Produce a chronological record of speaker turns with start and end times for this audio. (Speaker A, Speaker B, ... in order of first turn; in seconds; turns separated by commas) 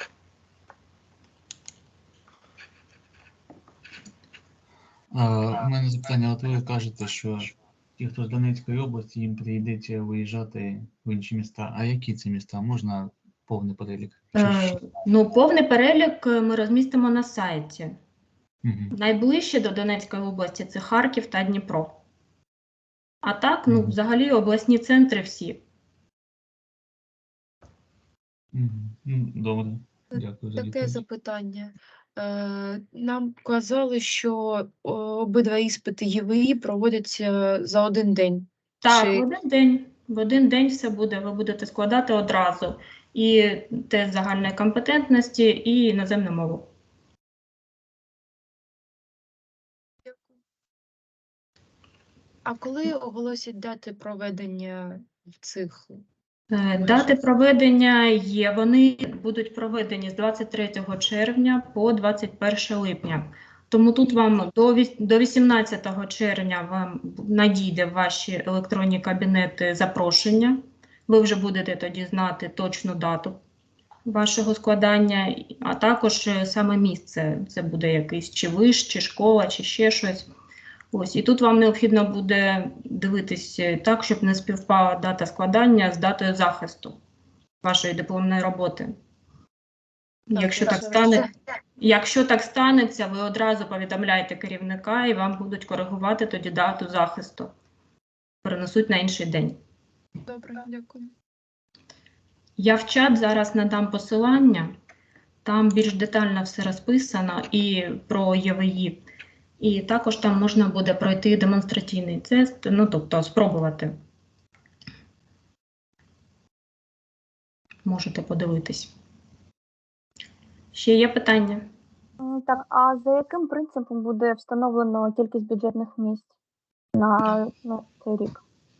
Speaker A: 5.1-14.8, Speaker B: 14.3-17.9, Speaker A: 18.6-18.9, Speaker B: 18.9-22.0, Speaker B: 23.2-25.6, Speaker A: 28.5-31.0, Speaker C: 30.1-39.2, Speaker B: 38.8-46.7, Speaker C: 50.0-50.3, Speaker C: 52.4-56.0, Speaker B: 56.5-73.4, Speaker C: 56.8-57.1, Speaker B: 74.0-80.3, Speaker B: 80.9-87.0, Speaker B: 87.6-88.9, Speaker B: 90.3-97.5, Speaker C: 90.3-91.3, Speaker B: 98.4-99.6, Speaker C: 100.3-101.1, Speaker B: 102.6-104.7, Speaker B: 105.4-109.0, Speaker B: 109.6-114.0, Speaker B: 117.8-118.9, Speaker B: 120.7-121.7, Speaker D: 122.2-126.3, Speaker D: 126.9-128.4